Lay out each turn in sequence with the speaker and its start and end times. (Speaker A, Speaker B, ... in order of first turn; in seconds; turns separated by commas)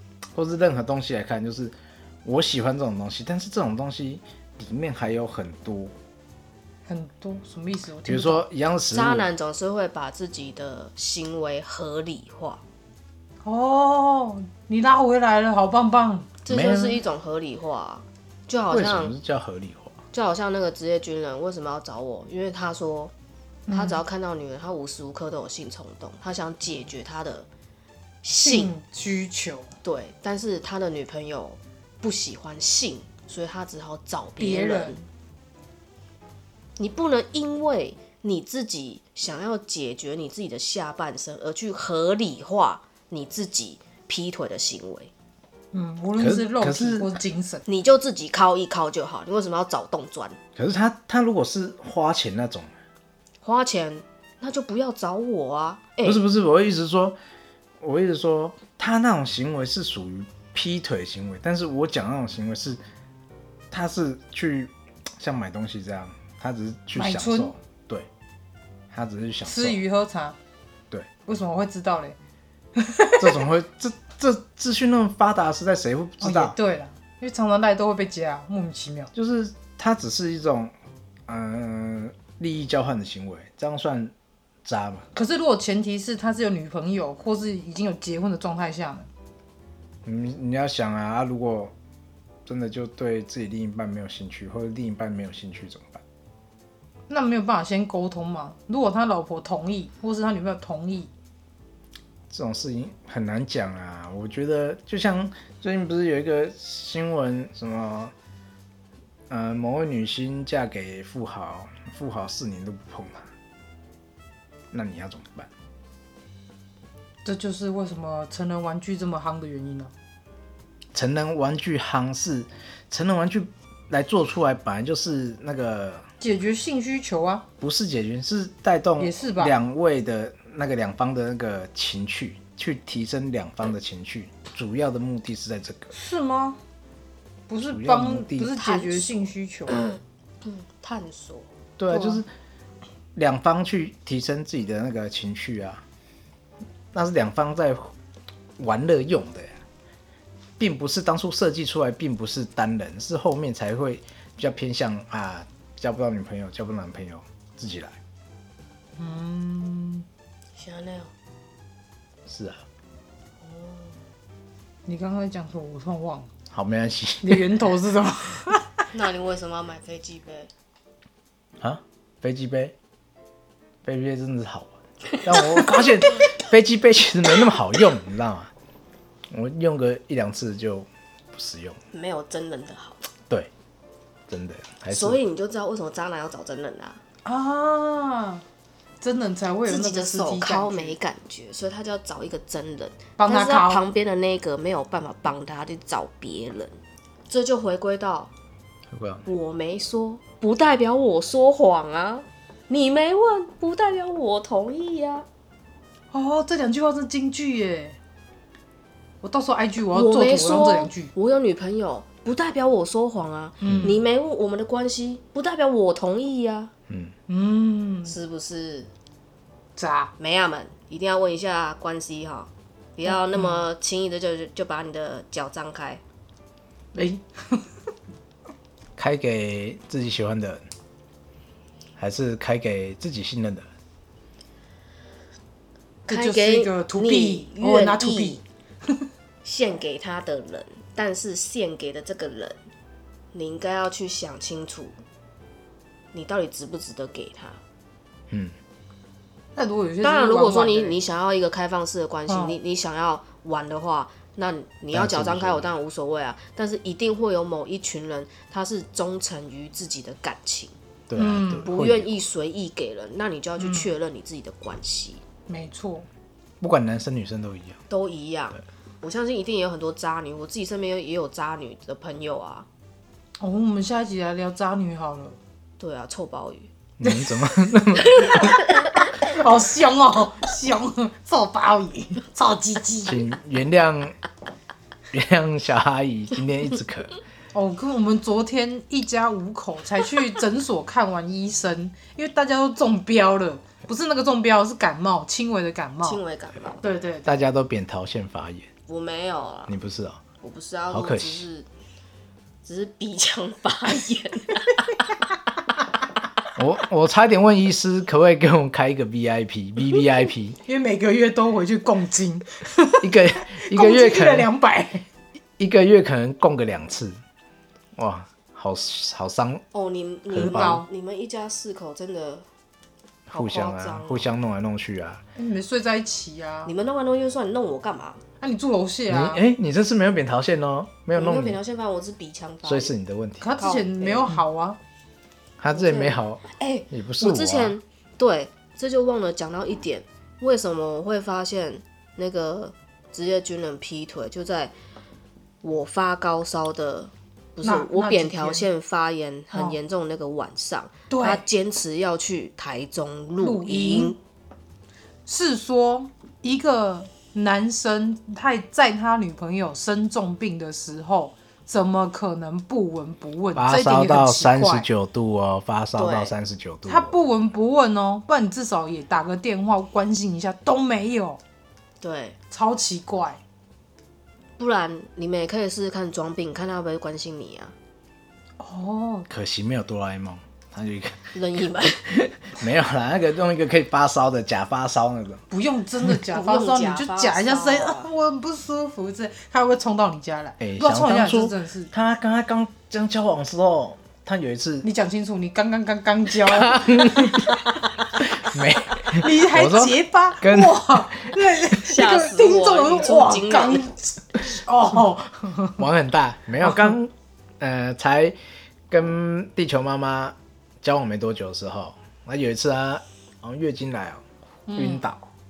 Speaker A: 0.3-5.9, Speaker B: 6.9-8.4, Speaker A: 8.1-9.3, Speaker C: 8.9-12.6, Speaker B: 13.4-16.4, Speaker C: 16.4-19.1, Speaker A: 16.5-17.0, Speaker A: 18.7-20.0, Speaker C: 20.1-23.1, Speaker B: 23.7-24.0, Speaker C: 23.7-27.5, Speaker C: 28.2-28.7, Speaker B: 28.4-29.7, Speaker C: 29.8-35.0, Speaker B: 34.4-35.0, Speaker C: 36.8-45.1, Speaker B: 45.7-47.6, Speaker A: 46.2-47.1, Speaker C: 47.6-50.4, Speaker A: 50.5-52.7, Speaker C: 53.4-56.2, Speaker A: 56.0-57.2, Speaker A: 57.8-62.8, Speaker A: 63.7-68.1, Speaker B: 66.9-67.5, Speaker A: 68.9-69.8, Speaker B: 69.5-70.3, Speaker B: 71.2-72.2, Speaker B: 72.8-73.4, Speaker A: 73.2-76.5, Speaker B: 76.2-79.1, Speaker A: 79.1-80.7, Speaker A: 81.3-84.1, Speaker A: 84.6-85.0, Speaker B: 85.1-89.1, Speaker A: 90.0-91.7, Speaker A: 92.5-96.0, Speaker B: 97.1-101.1, Speaker A: 102.3-108.1, Speaker A: 109.3-113.3, Speaker A: 114.7-115.5, Speaker B: 117.2-119.9, Speaker A: 120.9-126.0, Speaker B: 126.2-127.5, Speaker A: 127.6-135.9, Speaker B: 129.0-129.5, Speaker B: 135.9-136.6, Speaker B: 137.5-139.8, Speaker A: 137.6-138.6, Speaker C: 138.6-139.1, Speaker C: 139.7-141.5, Speaker A: 141.8-142.3, Speaker B: 141.9-142.2, Speaker A: 143.1-145.8, Speaker A: 146.9-147.9, Speaker A: 148.6-149.6, Speaker A: 150.6-158.0, Speaker B: 159.0-160.1, Speaker C: 160.6-161.1, Speaker A: 162.2-162.6, Speaker C: 163.4-164.0, Speaker B: 164.8-166.3, Speaker A: 166.5-167.5, Speaker B: 167.2-168.8, Speaker C: 168.9-170.5, Speaker A: 171.6-172.7, Speaker A: 173.8-178.5, Speaker A: 179.3-181.8, Speaker C: 181.9-183.0, Speaker A: 184.3-185.2, Speaker C: 184.9-187.0, Speaker B: 187.2-188.4, Speaker B: 189.0-191.0, Speaker C: 189.7-196.8, Speaker B: 193.2-193.8, Speaker C: 197.3-198.3, Speaker A: 198.9-199.2, Speaker C: 199.2-205.2, Speaker B: 206.1-207.9, Speaker B: 209.2-211.1, Speaker C: 209.9-216.7, Speaker B: 213.6-214.0, Speaker A: 213.6-214.0, Speaker A: 216.9-217.1, Speaker B: 217.3-218.1, Speaker C: 218.1-218.9, Speaker B: 219.8-220.1, Speaker C: 220.2-226.0, Speaker B: 223.1-223.7, Speaker B: 226.9-227.6, Speaker A: 229.0-230.6, Speaker A: 232.0-233.7, Speaker C: 236.1-238.4, Speaker B: 236.1-239.0, Speaker C: 239.4-242.6, Speaker C: 243.3-245.0, Speaker C: 246.1-247.6, Speaker A: 248.3-248.6, Speaker B: 249.6-251.0, Speaker C: 250.0-260.7, Speaker B: 252.3-252.6, Speaker A: 254.9-255.7, Speaker A: 261.1-262.1, Speaker B: 261.1-261.7, Speaker C: 261.6-265.2, Speaker B: 263.6-263.9, Speaker B: 265.5-266.1, Speaker A: 266.6-267.8, Speaker C: 267.9-272.7, Speaker B: 273.4-275.4, Speaker C: 275.8-276.7, Speaker A: 277.0-278.6, Speaker B: 277.0-277.5, Speaker C: 278.1-278.9, Speaker B: 279.1-283.2, Speaker A: 283.1-284.1, Speaker A: 285.1-287.1, Speaker B: 287.5-296.2, Speaker C: 296.0-296.8, Speaker B: 296.8-297.3, Speaker A: 297.2-298.7, Speaker C: 298.9-299.7, Speaker A: 299.7-300.2, Speaker C: 300.4-301.7, Speaker A: 300.9-301.5, Speaker C: 302.6-305.0, Speaker A: 306.6-310.6, Speaker B: 310.6-315.1, Speaker A: 313.0-314.5, Speaker A: 315.6-317.2, Speaker A: 317.9-319.6, Speaker C: 319.7-322.4, Speaker A: 320.3-320.8, Speaker B: 320.3-320.9, Speaker A: 323.3-325.2, Speaker C: 323.3-324.3, Speaker B: 325.4-326.7, Speaker C: 326.6-328.2, Speaker B: 328.4-329.4, Speaker A: 329.1-331.6, Speaker C: 331.1-332.9, Speaker A: 332.6-333.5, Speaker B: 333.4-334.8, Speaker C: 333.6-334.3, Speaker A: 335.6-337.7, Speaker C: 335.7-344.7, Speaker C: 345.6-354.2, Speaker B: 347.6-348.7, Speaker B: 349.5-349.8, Speaker B: 351.1-351.4, Speaker B: 353.4-354.1, Speaker B: 355.3-364.9, Speaker A: 363.6-367.2, Speaker C: 365.9-366.3, Speaker B: 366.9-371.4, Speaker C: 372.0-372.4, Speaker B: 372.5-373.4, Speaker C: 374.6-377.7, Speaker B: 378.6-379.3, Speaker A: 379.3-381.3, Speaker C: 381.3-382.1, Speaker A: 382.1-385.4, Speaker B: 385.5-391.9, Speaker C: 386.3-388.1, Speaker A: 390.6-394.9, Speaker B: 394.8-397.5, Speaker A: 396.5-397.5, Speaker A: 398.2-401.3, Speaker B: 399.0-405.9, Speaker C: 401.8-403.9, Speaker A: 405.8-408.4, Speaker B: 406.6-406.9, Speaker A: 408.9-415.2, Speaker B: 414.7-415.0